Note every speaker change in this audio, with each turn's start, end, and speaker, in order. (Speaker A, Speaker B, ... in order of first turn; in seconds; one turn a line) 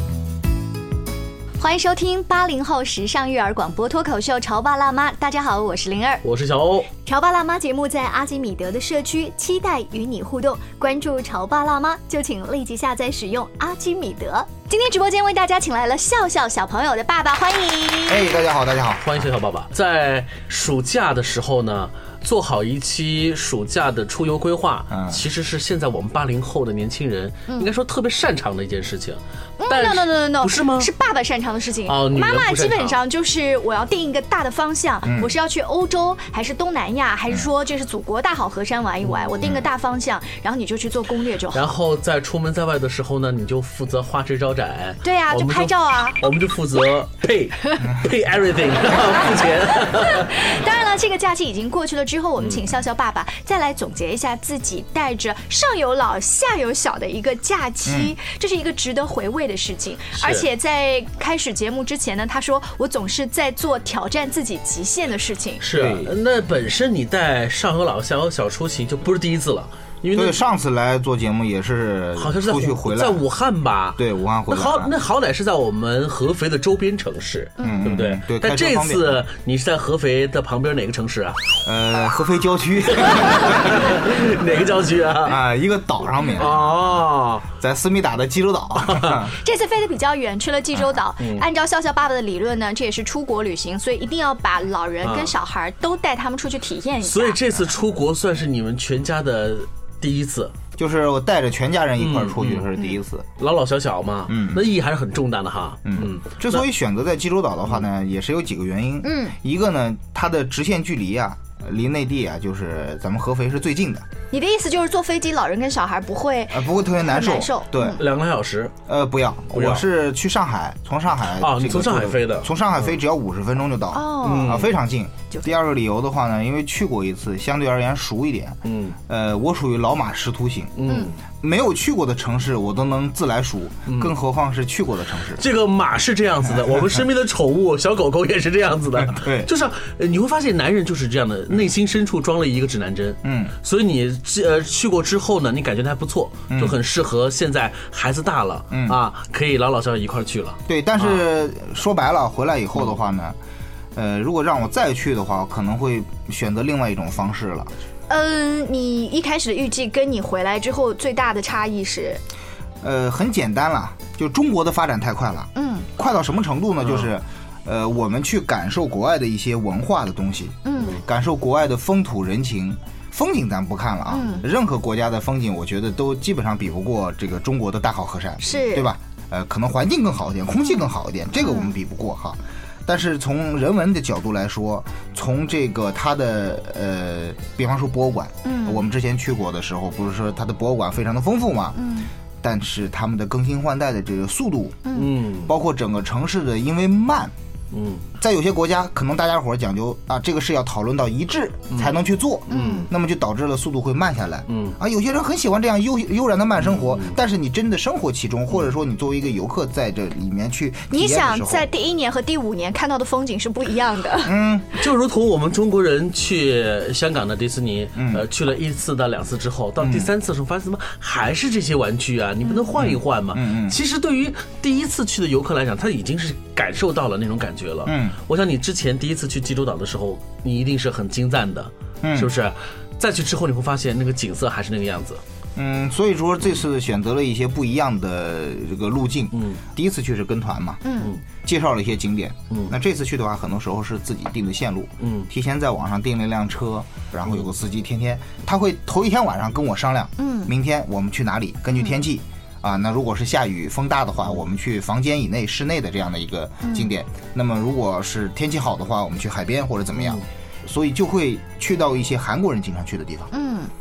Speaker A: 1.6-6.2
Speaker B: 6.2-6.9
Speaker A: 7.0-18.2
Speaker C: 18.1-19.0
Speaker B: 19.0-30.9
Speaker C: 24.9-25.2
Speaker A: 29.6-41.7
Speaker B: 31.9-33.0
Speaker C: 35.0-35.3
Speaker B: 39.0-39.3
Speaker B: 41.5-50.5
Speaker A: 45.0-46.2
Speaker C: 47.8-48.1
Speaker A: 49.7-65.7
Speaker B: 52.4-52.6
Speaker C: 57.9-58.1
Speaker B: 60.2-60.5
Speaker B: 65.6-70.4
Speaker C: 65.7-66.1
Speaker C: 70.1-73.2
Speaker B: 72.2-81.4
Speaker C: 74.0-74.9
Speaker A: 77.6-77.8
Speaker C: 77.6-79.2
Speaker C: 81.6-84.0
Speaker B: 83.0-85.4
Speaker C: 85.2-87.1
Speaker B: 86.4-87.5
Speaker C: 87.6-89.3
Speaker B: 88.9-89.2
Speaker A: 89.3-97.5
Speaker B: 91.2-91.5
Speaker B: 95.0-95.3
Speaker B: 97.0-100.5
Speaker C: 100.8-103.2
Speaker B: 102.0-102.7
Speaker B: 103.4-106.6
Speaker C: 104.3-104.6
Speaker C: 105.8-114.0
Speaker A: 109.0-109.3
Speaker A: 114.3-118.0
Speaker C: 116.5-118.0
Speaker B: 118.0-118.7
Speaker C: 118.9-130.7
Speaker B: 119.5-119.8
Speaker B: 121.4-122.9
Speaker A: 123.9-124.7
Speaker B: 124.2-124.7
Speaker B: 128.6-129.0
Speaker B: 130.8-131.1
Speaker C: 131.4-135.4
Speaker B: 133.9-134.1
Speaker B: 135.4-151.2
Speaker C: 139.0-139.5
Speaker C: 143.2-143.5
Speaker C: 146.5-146.8
Speaker C: 148.7-149.0
Speaker C: 150.7-153.4
Speaker C: 153.9-157.7
Speaker A: 158.1-162.2
Speaker C: 162.8-191.8
Speaker A: 165.6-165.9
Speaker B: 166.8-167.1
Speaker A: 170.6-171.0
Speaker A: 174.1-174.4
Speaker A: 178.4-178.9
Speaker A: 180.7-181.7
Speaker A: 188.4-188.8
Speaker A: 191.8-192.1
Speaker C: 192.4-194.9
Speaker A: 194.9-195.1
Speaker B: 194.9-195.5
Speaker C: 195.4-197.3
Speaker B: 197.7-198.0
Speaker C: 198.2-211.7
Speaker B: 201.7-202.0
Speaker A: 202.5-202.9
Speaker B: 202.5-202.8
Speaker B: 204.5-204.8
Speaker B: 206.6-207.2
Speaker A: 210.9-214.3
Speaker C: 214.2-214.7
Speaker B: 214.8-235.2
Speaker C: 217.9-218.2
Speaker C: 219.8-220.1
Speaker C: 222.8-223.8
Speaker C: 227.8-228.2
Speaker C: 232.0-232.3
Speaker C: 235.6-240.8
Speaker B: 239.3-239.6
Speaker A: 240.8-241.1
Speaker C: 241.4-263.3
Speaker B: 245.0-245.3
Speaker A: 250.2-250.5
Speaker A: 251.7-252.0
Speaker A: 256.6-256.9
Speaker B: 260.0-260.2
Speaker A: 263.3-263.7